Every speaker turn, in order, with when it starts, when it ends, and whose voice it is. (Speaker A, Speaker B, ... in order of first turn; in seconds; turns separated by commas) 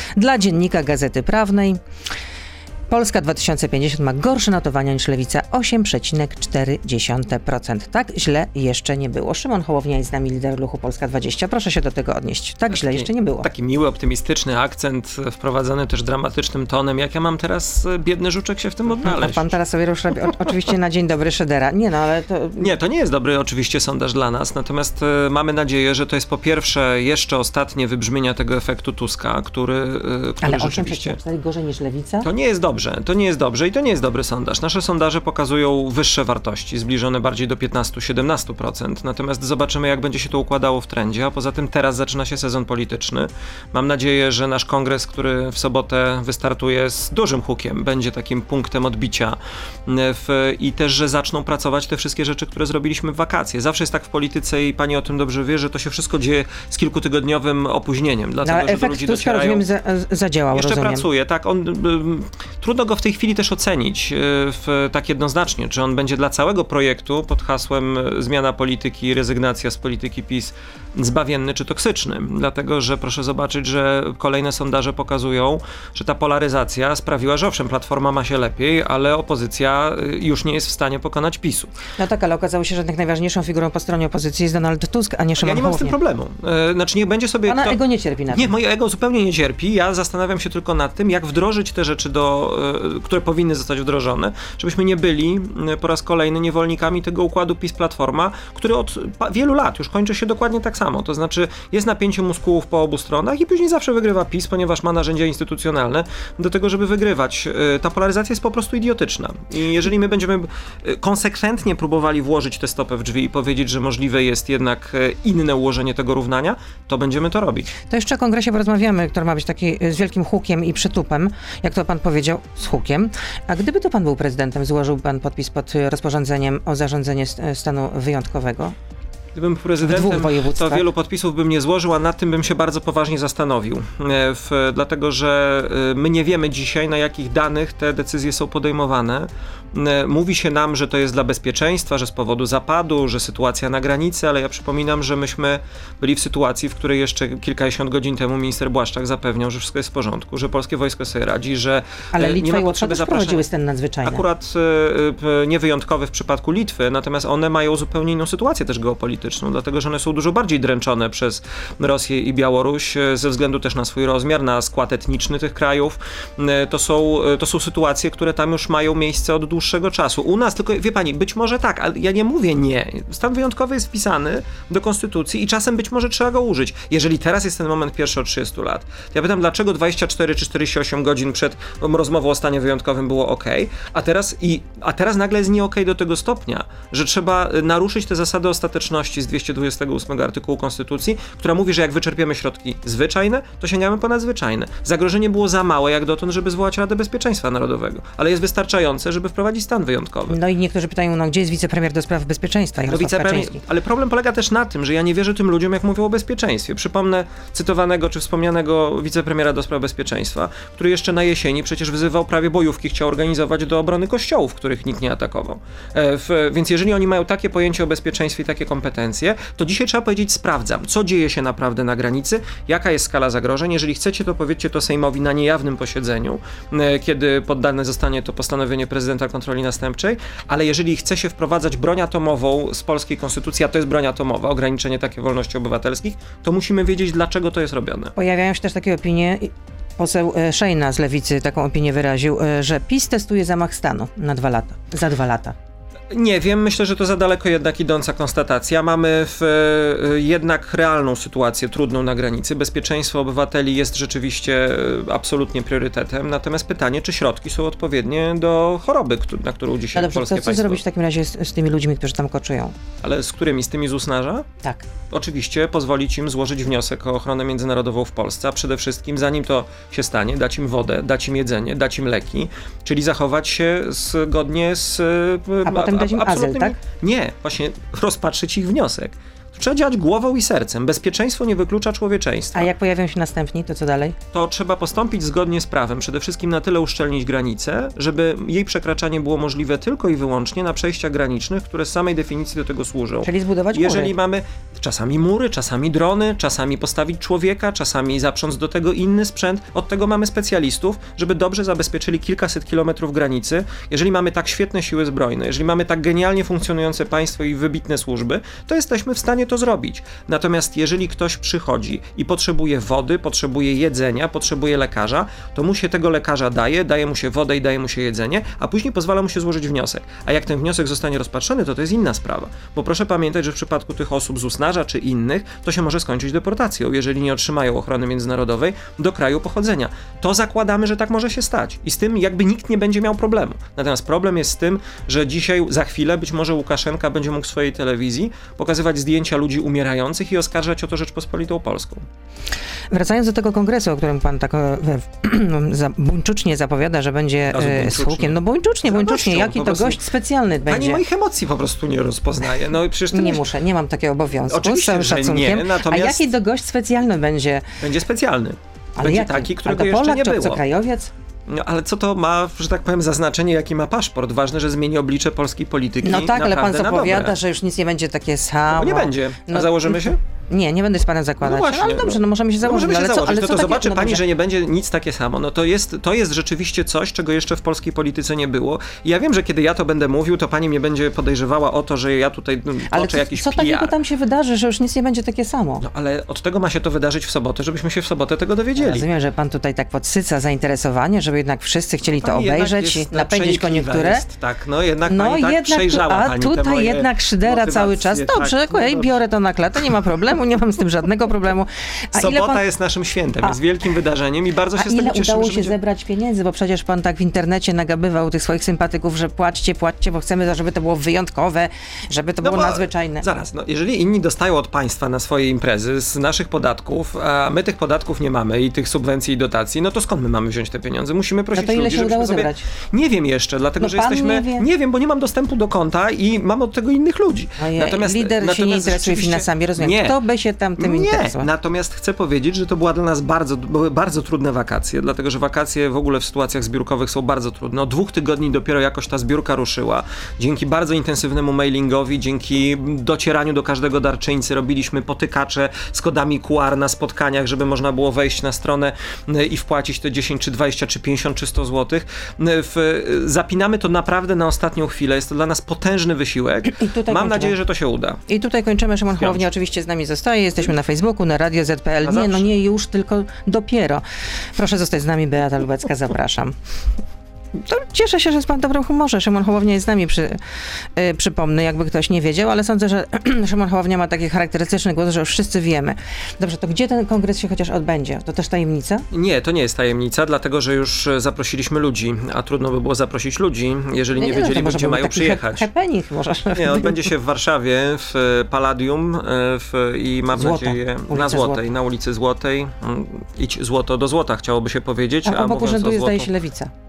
Speaker A: 0.2-1.8, Speaker A: 2.9-13.5, Speaker B: 12.7-19.6, Speaker A: 19.0-22.7, Speaker B: 22.6-31.2, Speaker A: 30.4-32.3, Speaker B: 32.2-59.6, Speaker A: 58.4-61.0, Speaker B: 60.5-81.7, Speaker A: 82.0-85.9, Speaker B: 85.4-87.8, Speaker A: 87.5-88.5, Speaker B: 88.3-117.7, Speaker A: 117.9-128.8, Speaker B: 129.3-153.4, Speaker A: 129.8-130.8, Speaker A: 152.1-154.2, Speaker B: 154.0-200.4, Speaker A: 200.3-203.6, Speaker B: 202.9-238.1, Speaker A: 238.2-245.6, Speaker B: 246.1-260.8, Speaker A: 259.9-262.7, Speaker B: 263.0-264.5, Speaker B: 265.1-282.7, Speaker A: 275.6-276.8, Speaker A: 282.5-284.2, Speaker B: 284.3-342.1, Speaker A: 293.2-294.1, Speaker A: 342.9-351.0, Speaker B: 347.5-350.0, Speaker B: 350.7-353.4, Speaker A: 353.1-357.6, Speaker B: 354.5-356.3, Speaker B: 357.8-360.6, Speaker A: 359.0-361.1, Speaker B: 361.5-367.4, Speaker A: 366.0-374.2, Speaker B: 368.7-370.2, Speaker B: 371.4-383.9, Speaker A: 382.9-385.9, Speaker B: 385.8-389.1, Speaker A: 388.8-394.2, Speaker B: 392.1-399.2, Speaker A: 395.1-402.6, Speaker B: 402.1-405.8, Speaker A: 404.8-413.3, Speaker B: 412.4-430.2, Speaker A: 421.5-422.7, Speaker A: 423.8-424.6, Speaker A: 427.6-431.5, Speaker B: 430.8-458.2, Speaker A: 456.7-457.6, Speaker A: 458.3-464.0, Speaker B: 459.2-459.5, Speaker B: 462.0-462.5, Speaker A: 464.6-466.6, Speaker A: 467.6-470.4, Speaker A: 470.9-479.1, Speaker B: 479.1-485.7, Speaker A: 484.2-487.1, Speaker B: 486.6-496.3, Speaker A: 490.3-491.6, Speaker A: 495.2-496.7